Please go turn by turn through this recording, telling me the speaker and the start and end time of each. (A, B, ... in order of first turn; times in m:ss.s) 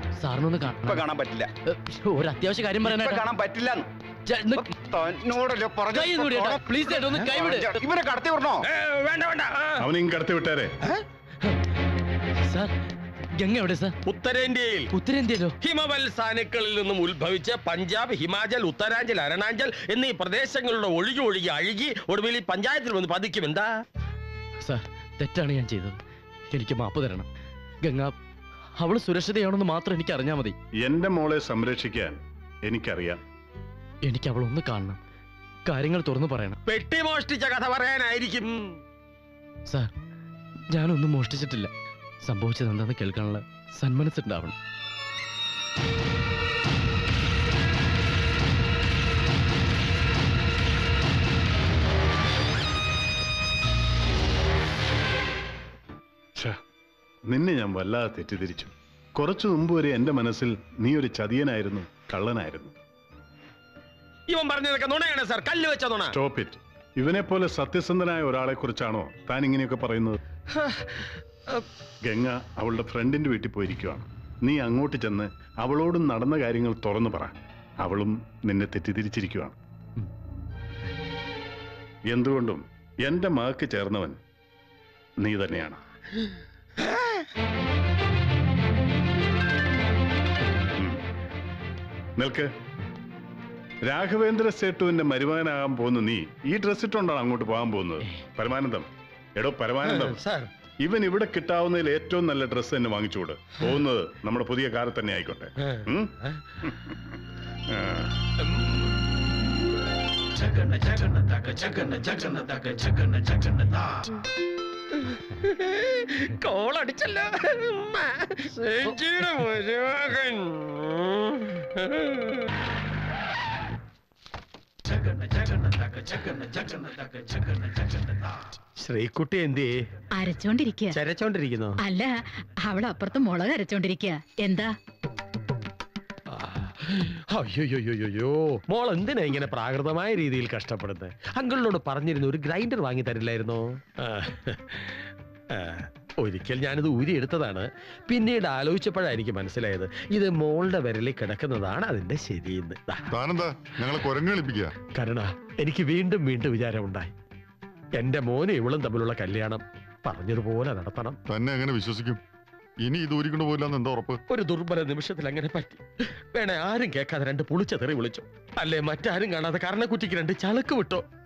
0:00.2-0:01.0 A
0:00.9-0:01.5 B
0:01.7-0:03.3 A
0:02.8-0:03.9 B
0:04.3-0:04.7 A
0:04.6-0:08.6 B
0:05.9-0:07.7 A
0:08.6-0:09.9 C
0:09.8-0:10.7 D
0:12.5-0:12.7 A
0:13.4-0:13.9 A
0:14.0-0:14.9 C
0:14.9-0:15.6 A
0:15.6-0:23.7 C
0:24.6-0:26.0 A
0:26.5-0:27.3 A
0:27.8-0:28.1 A
0:28.8-0:30.6 A
0:30.8-0:33.2 D
0:34.0-0:35.0 A
0:35.7-0:36.6 A
0:36.7-0:38.8 C
0:40.7-0:41.7 A
0:42.2-0:44.5 A
0:57.3-1:02.7 D
1:04.3-1:06.2 C
1:06.1-1:10.2 D
1:10.6-1:11.6 C
1:12.0-1:19.6 D
1:22.1-1:24.2 D
1:25.2-1:25.8 D
1:32.2-1:32.5 D
1:33.8-1:40.2 D
1:39.8-1:40.5 C
1:40.8-1:47.0 D
1:45.6-1:46.4 C
1:47.7-1:48.1 D
1:50.6-1:52.9 C
1:55.0-2:02.4 C
2:06.0-2:07.2 C
2:08.8-2:09.8 C
2:10.2-2:11.0 E
2:10.9-2:11.8 C
2:11.8-2:14.7 E
2:16.3-2:33.0 C
2:33.1-2:34.7 F
2:34.9-2:37.1 C
2:37.9-2:41.2 C
2:41.3-2:42.2 F
2:42.8-2:44.2 F
2:44.3-2:51.1 C